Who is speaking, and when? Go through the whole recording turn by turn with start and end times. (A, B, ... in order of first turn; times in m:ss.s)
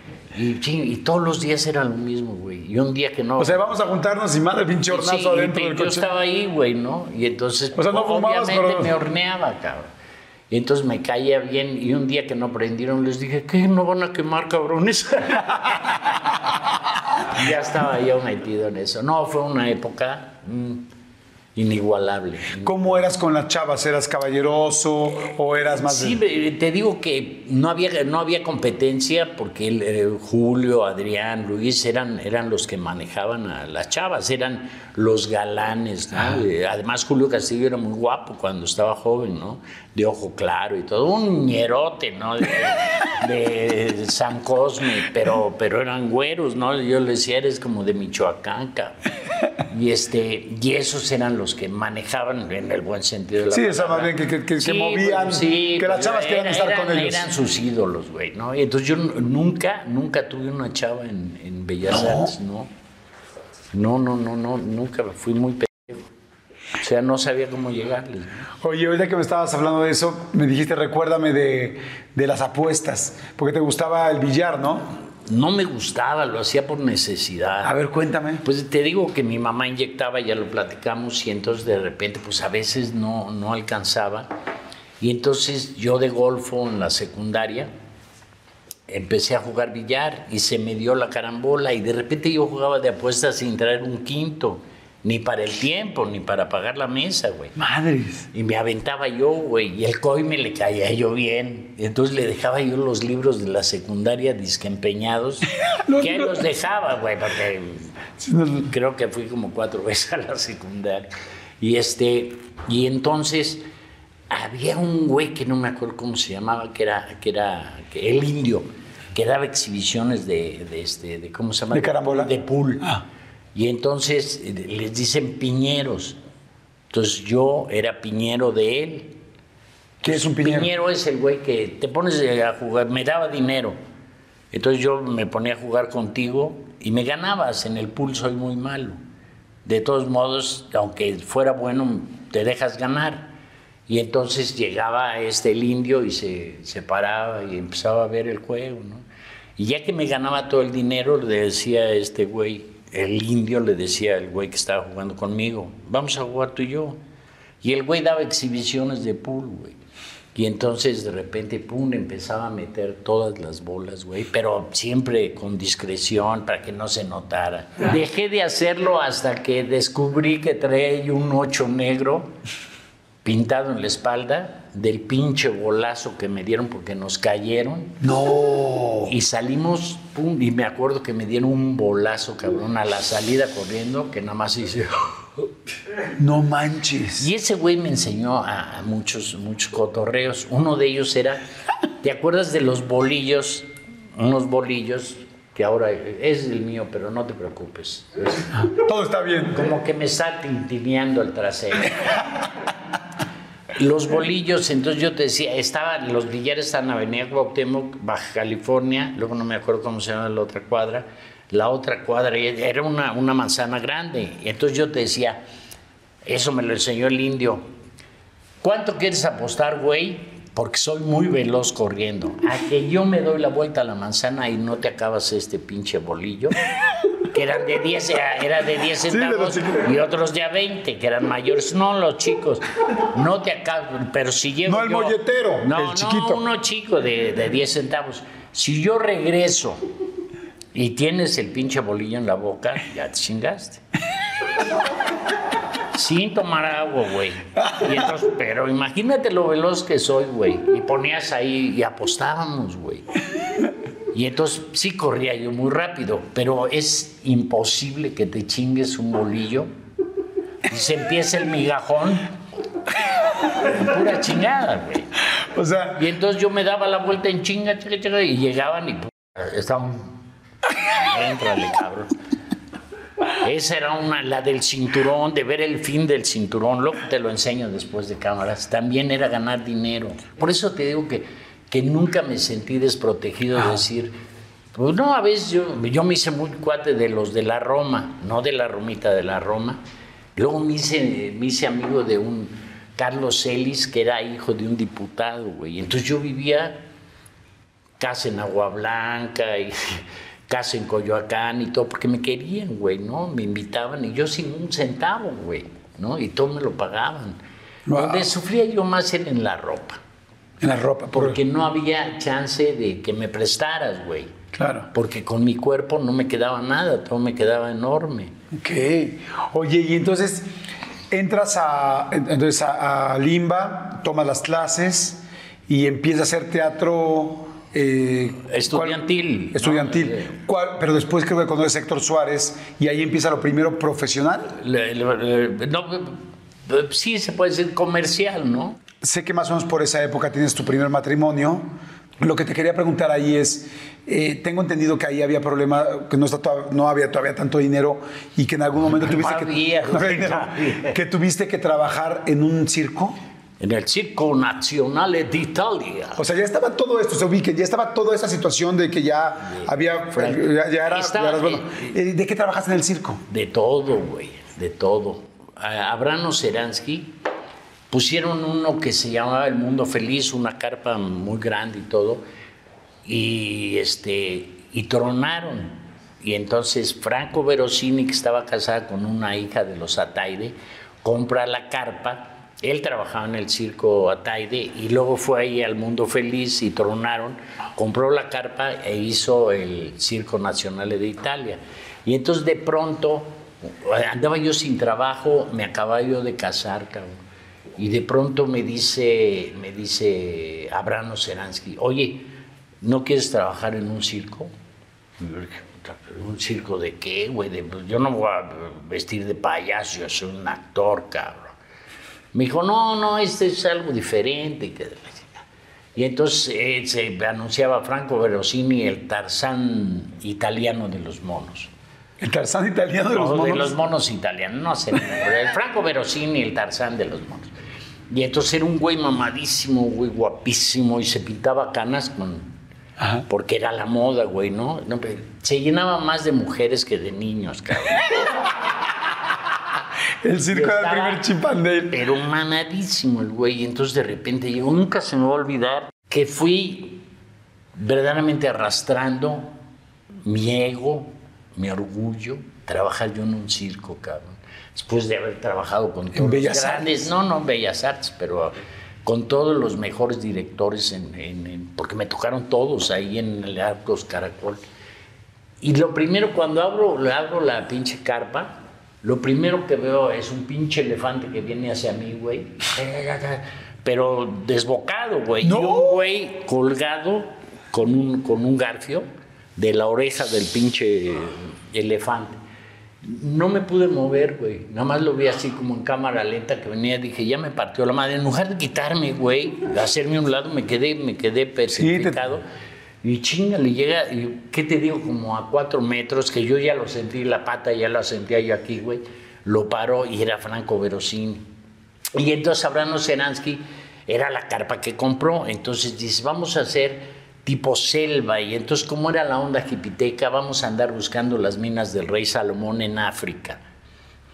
0:00.3-0:03.6 A
0:03.4-0:06.1 B
0:04.9-0:09.9 A
0:07.7-0:09.0 B
0:10.5-0:16.2 A
0:17.3-0:20.8 A
0:21.6-0:23.1 A
0:22.6-0:26.2 B
0:25.5-0:49.0 A
0:49.7-1:02.7 A
0:53.5-0:57.3 B
1:01.9-1:02.3 B
1:03.7-1:06.1 A
1:06.8-1:08.5 A
1:08.6-1:15.0 B
1:15.2-1:17.7 A
1:17.6-1:18.4 B
1:18.4-1:24.3 A
1:25.0-1:27.7 A
1:28.9-1:37.6 A
1:37.6-1:38.2 B
1:38.3-1:47.9 A
1:45.6-1:46.4 B
1:48.2-1:48.7 B
1:48.6-1:51.1 A
1:51.6-1:53.6 A
1:54.3-2:02.8 A
2:01.7-2:03.0 B
2:03.5-2:06.2 A
2:06.9-2:09.2 A
2:10.0-2:10.7 B
2:10.0-2:13.8 A
2:14.5-2:19.0 A
2:19.6-2:23.3 A
2:23.9-2:29.0 A
2:29.6-2:37.0 A
2:37.6-2:39.8 A
2:40.3-2:52.3 A
2:53.2-2:58.0 A
2:58.0-2:59.2 B
2:59.0-3:05.3 A
3:06.1-3:07.3 B
3:07.2-3:11.4 A
3:12.0-3:18.6 A
3:18.6-3:19.7 B
3:19.5-3:22.2 A
3:23.7-3:35.4 A
3:36.2-3:37.6 A
3:38.6-3:46.6 A
3:47.3-3:59.8 A
3:49.0-3:50.0 B
3:54.6-3:56.4 B
4:00.7-4:03.8 A
4:05.9-4:13.1 A
4:14.1-4:19.7 A
4:20.7-4:22.3 A
4:23.6-4:25.1 A
4:25.5-4:26.0 B
4:25.9-4:30.2 A
4:30.9-4:32.1 A
4:33.3-4:44.1 A
4:44.7-4:49.8 A
4:50.4-4:56.8 A
4:58.0-5:07.4 A
5:07.9-5:08.3 B
5:07.9-5:10.0 A
5:10.6-5:11.4 B
5:11.1-5:14.3 A
5:14.5-5:14.9 B
5:14.9-5:18.3 A
5:18.5-5:20.5 B
5:21.1-5:34.5 B
5:28.4-5:30.3 A
5:34.5-5:38.8 A
5:39.0-5:53.2 B
5:49.0-5:51.0 A
5:53.6-5:56.2 A
5:56.2-6:03.2 B
5:59.4-6:02.0 A
6:03.3-6:07.1 A
6:07.9-6:12.2 A
6:13.0-6:37.1 A
6:37.8-6:42.3 A
6:42.8-6:44.5 A
6:45.2-6:51.5 A
6:52.3-6:55.4 A
6:56.0-7:01.7 A
7:02.2-7:03.7 B
7:03.1-7:07.5 A
7:08.1-7:12.5 A
7:13.0-7:13.2 B
7:13.3-7:18.4 A
7:20.2-7:21.9 B
7:20.5-7:21.2 A
7:21.9-7:27.0 A
7:27.8-7:29.5 A
7:30.2-7:44.6 A
7:36.1-7:37.1 B
7:45.6-8:02.4 A
7:55.4-7:56.0 B
8:03.0-8:12.4 A
8:11.7-8:12.2 B
8:13.0-8:21.5 A
8:22.1-8:33.6 A